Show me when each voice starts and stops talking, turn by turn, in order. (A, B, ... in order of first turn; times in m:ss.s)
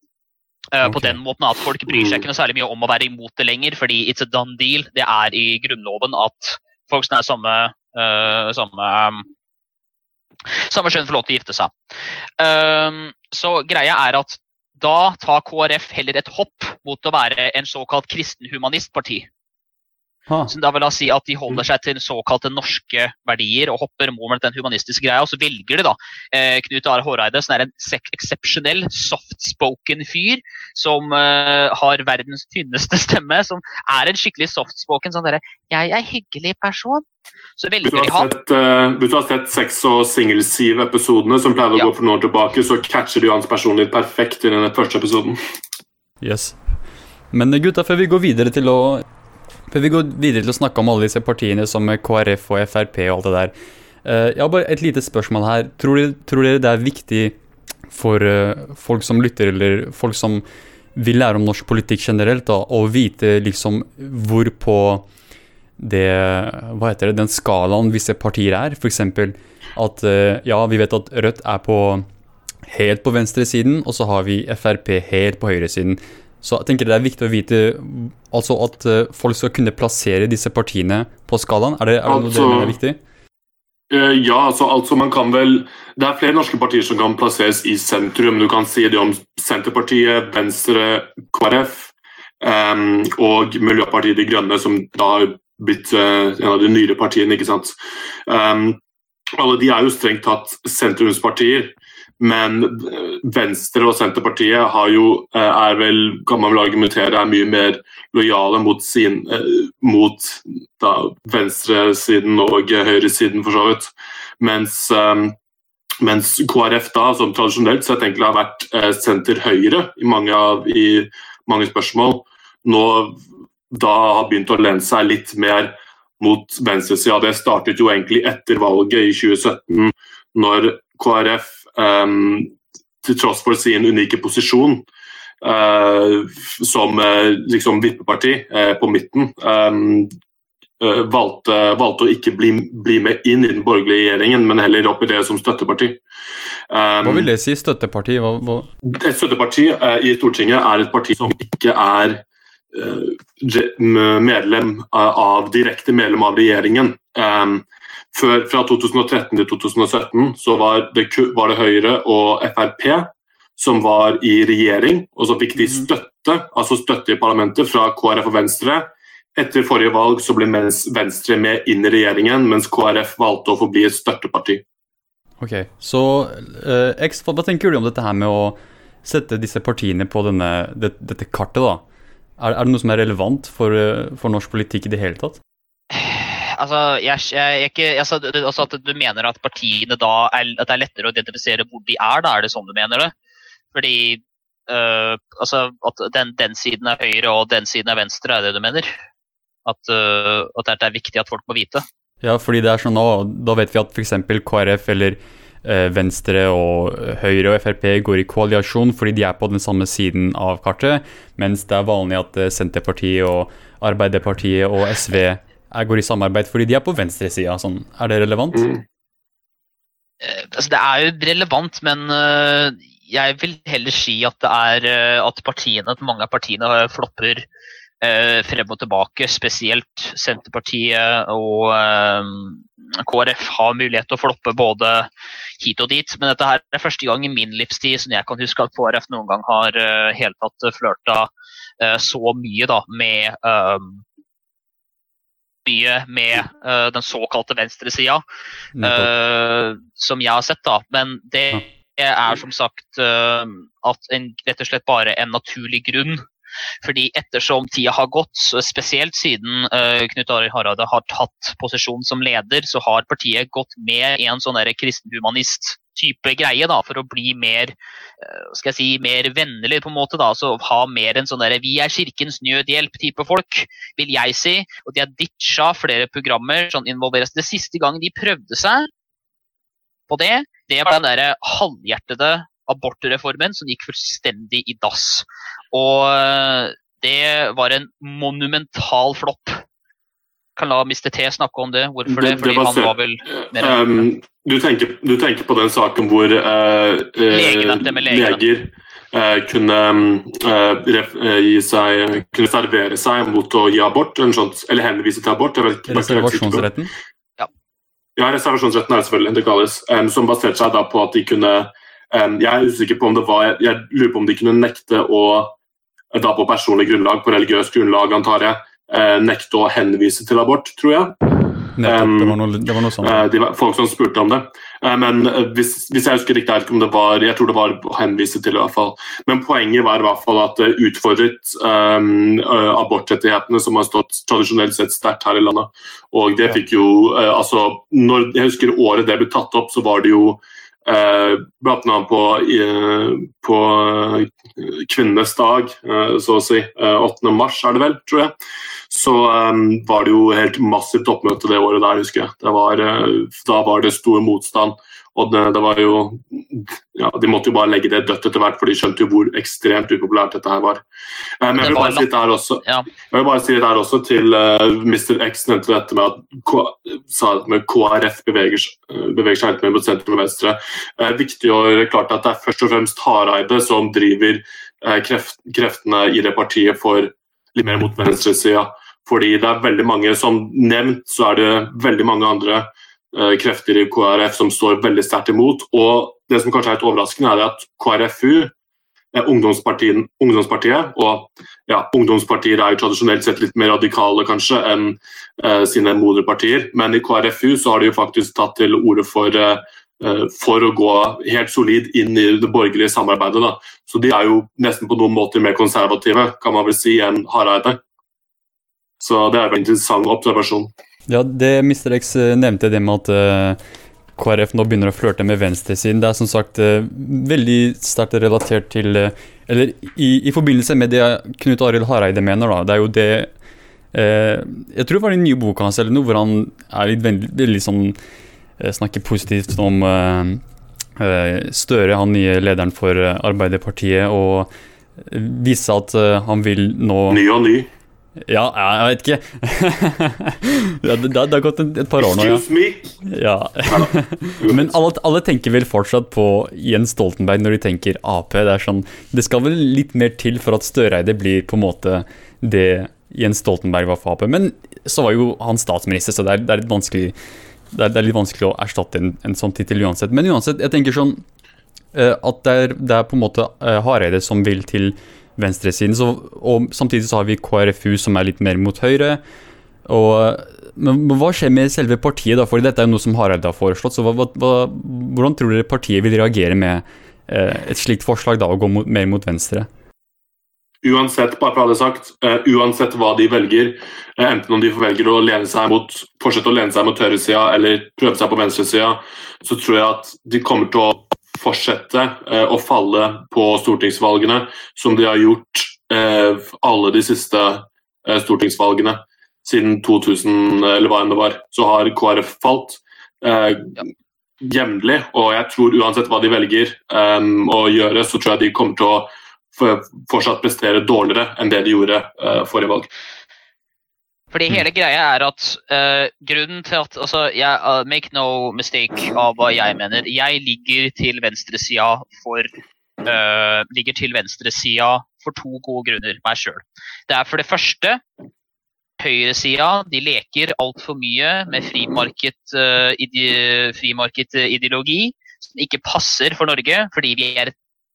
0:00.7-0:09.3 A
0:00.8-0:01.2 B
0:01.9-0:02.3 C
0:10.6-0:11.7 A
0:12.4-0:19.3 A
0:20.5-0:37.0 A
0:37.6-0:38.3 A
0:37.8-0:45.4 C
0:46.2-0:46.6 B
0:47.3-0:49.1 B
0:49.7-0:53.5 B
0:54.0-0:57.4 B
0:57.9-1:00.4 B
1:01.0-1:05.1 B
1:05.8-1:12.0 B
1:12.7-1:23.0 B
1:22.1-1:22.8 C
1:23.9-1:37.8 C
1:38.3-1:38.8 C
1:39.4-1:55.4 C
1:56.0-2:03.2 C
2:03.7-2:14.9 C
2:15.4-2:20.1 C
2:20.8-2:26.0 C
2:26.7-2:27.3 C
2:27.0-2:28.7 B
2:28.8-2:54.6 C
2:55.4-3:01.8 B
3:02.4-3:05.4 B
3:05.9-3:13.1 A
3:13.7-3:18.9 A
3:19.7-3:21.8 A
3:22.2-3:38.7 B
3:38.5-3:38.8 C
3:40.2-3:47.5 A
3:48.0-3:55.1 A
3:55.6-4:04.0 A
4:05.6-4:08.2 A
4:08.8-4:09.1 B
4:08.8-4:16.3 A
4:16.8-4:38.9 A
4:40.1-4:49.6 A
4:50.6-4:54.0 A
4:52.1-5:06.7 C
4:57.3-4:58.4 A
5:05.9-5:06.9 B
5:08.2-5:15.6 C
5:16.1-5:21.2 C
5:21.8-5:23.2 B
5:21.8-5:22.4 C
5:23.0-5:48.3 C
5:48.9-6:00.8 C
6:01.4-6:28.5 C
6:01.6-6:02.1 A
6:29.1-6:47.8 C
6:49.0-6:50.7 C
6:51.1-6:53.6 B
6:54.2-7:03.3 B
7:03.9-7:08.0 B
7:08.6-7:10.4 B
7:11.0-7:17.2 B
7:17.1-7:17.7 C
7:18.3-7:22.4 B
7:22.0-7:23.0 C
7:23.0-7:37.2 B
7:23.7-7:24.8 C
7:37.7-7:41.2 B
7:41.9-7:49.2 B
7:49.8-7:59.7 B
8:00.8-8:23.8 C
8:24.4-8:32.9 C
8:34.3-8:42.5 A
8:43.0-8:48.0 A
8:49.0-8:57.5 A